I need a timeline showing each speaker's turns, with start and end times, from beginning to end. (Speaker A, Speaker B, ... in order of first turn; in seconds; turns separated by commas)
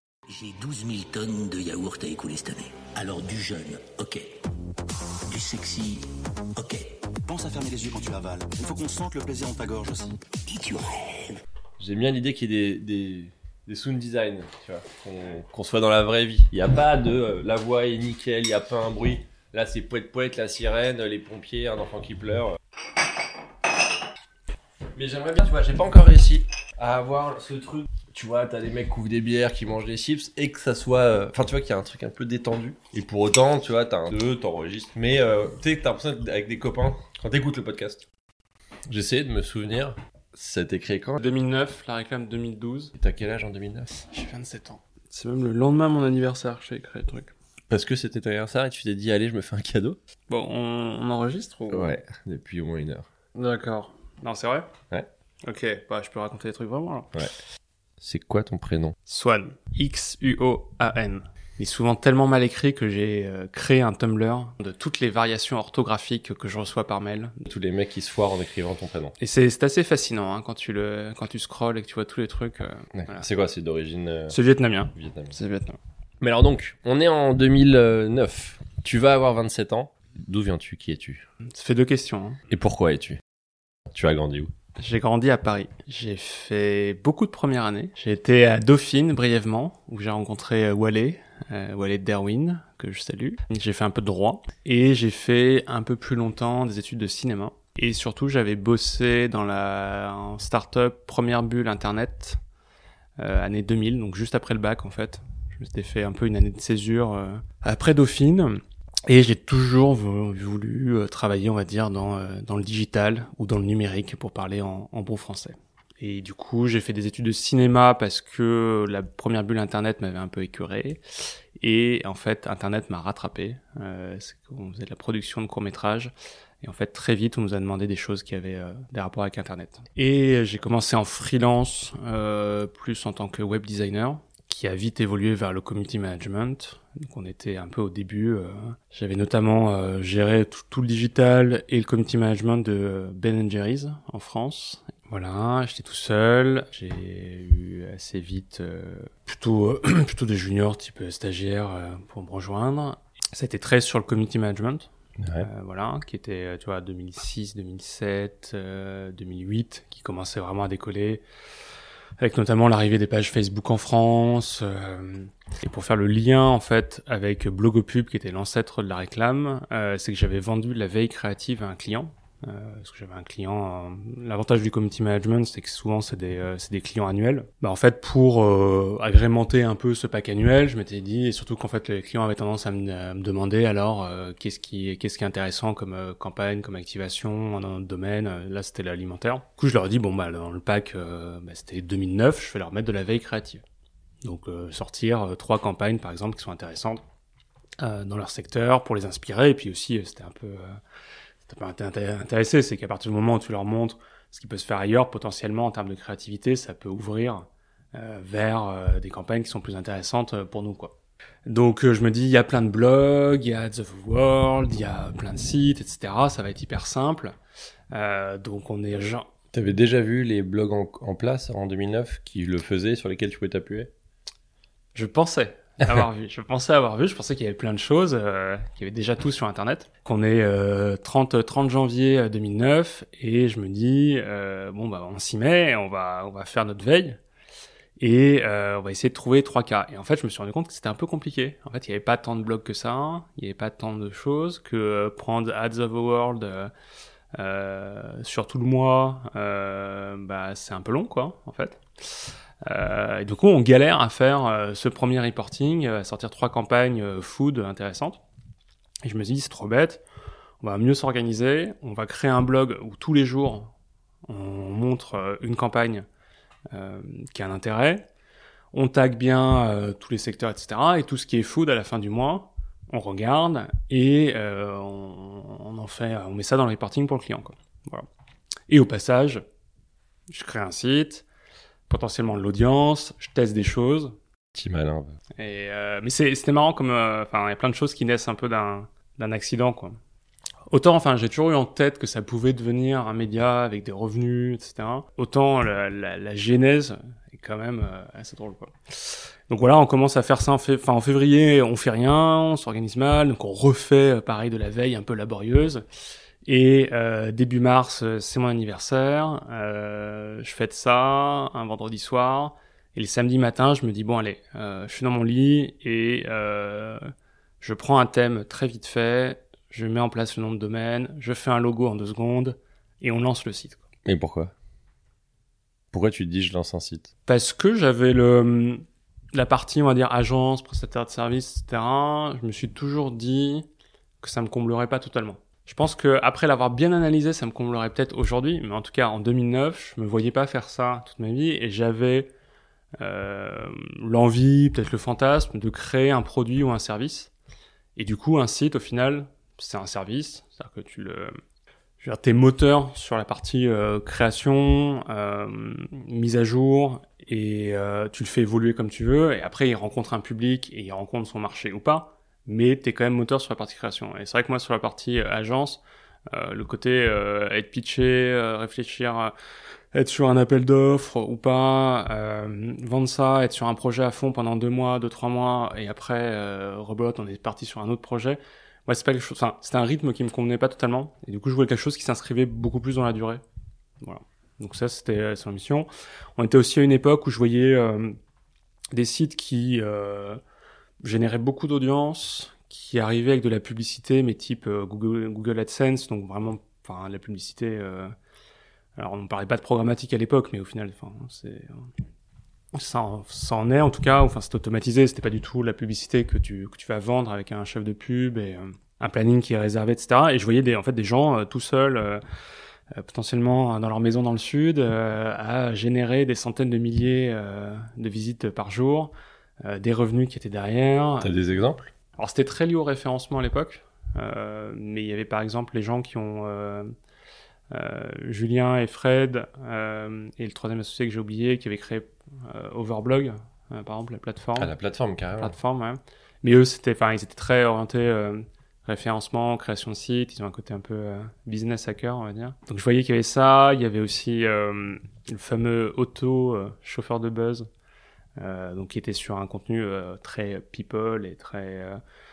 Speaker A: 0.3-4.3, Speaker A: 5.3-6.9, Speaker B: 7.2-10.2, Speaker A: 10.5-11.4, Speaker C: 11.8-22.6, Speaker C: 24.9-38.0, Speaker C: 38.9-41.2, Speaker D: 41.2-42.9, Speaker C: 43.0-43.9, Speaker D: 43.9-47.3, Speaker C: 47.7-50.0, Speaker D: 50.3-52.0, Speaker C: 51.7-53.1, Speaker D: 53.4-54.7, Speaker D: 55.4-57.1, Speaker C: 58.0-59.0, Speaker D: 59.1-67.5, Speaker C: 67.5-69.2, Speaker D: 69.2-73.2, Speaker C: 72.9-74.4, Speaker D: 74.3-75.8, Speaker C: 74.9-75.3, Speaker C: 76.2-81.3, Speaker D: 81.4-82.4, Speaker C: 82.5-83.2, Speaker C: 83.9-84.5, Speaker D: 84.8-102.4, Speaker D: 103.2-121.0, Speaker D: 121.6-161.2, Speaker C: 155.2-155.5, Speaker D: 162.2-193.6, Speaker D: 194.2-197.0, Speaker D: 197.8-200.8, Speaker D: 201.4-210.9, Speaker D: 211.5-217.3, Speaker D: 217.9-219.3, Speaker C: 219.5-223.9, Speaker D: 224.9-237.2, Speaker D: 238.0-246.7, Speaker D: 247.3-258.2, Speaker D: 259.0-260.0, Speaker D: 260.6-263.7, Speaker D: 264.3-266.1, Speaker D: 266.7-268.1, Speaker D: 268.7-278.1, Speaker D: 278.7-279.4, Speaker D: 280.3-281.2, Speaker D: 281.9-284.2, Speaker C: 284.5-285.2, Speaker D: 285.4-290.0, Speaker D: 290.7-305.9, Speaker D: 306.4-323.9, Speaker C: 324.1-324.5, Speaker C: 325.9-327.1, Speaker D: 327.3-333.7, Speaker D: 334.2-342.3, Speaker D: 343.0-347.3, Speaker D: 348.0-351.4, Speaker D: 352.0-369.3, Speaker D: 369.9-383.4, Speaker D: 384.0-388.2, Speaker D: 388.9-390.4, Speaker D: 391.0-398.1, Speaker D: 399.0-401.9, Speaker D: 402.7-412.2, Speaker D: 412.9-421.3, Speaker C: 421.2-421.9, Speaker D: 422.2-426.9, Speaker D: 427.7-434.7, Speaker C: 434.6-435.6, Speaker D: 435.4-447.7, Speaker D: 448.4-452.0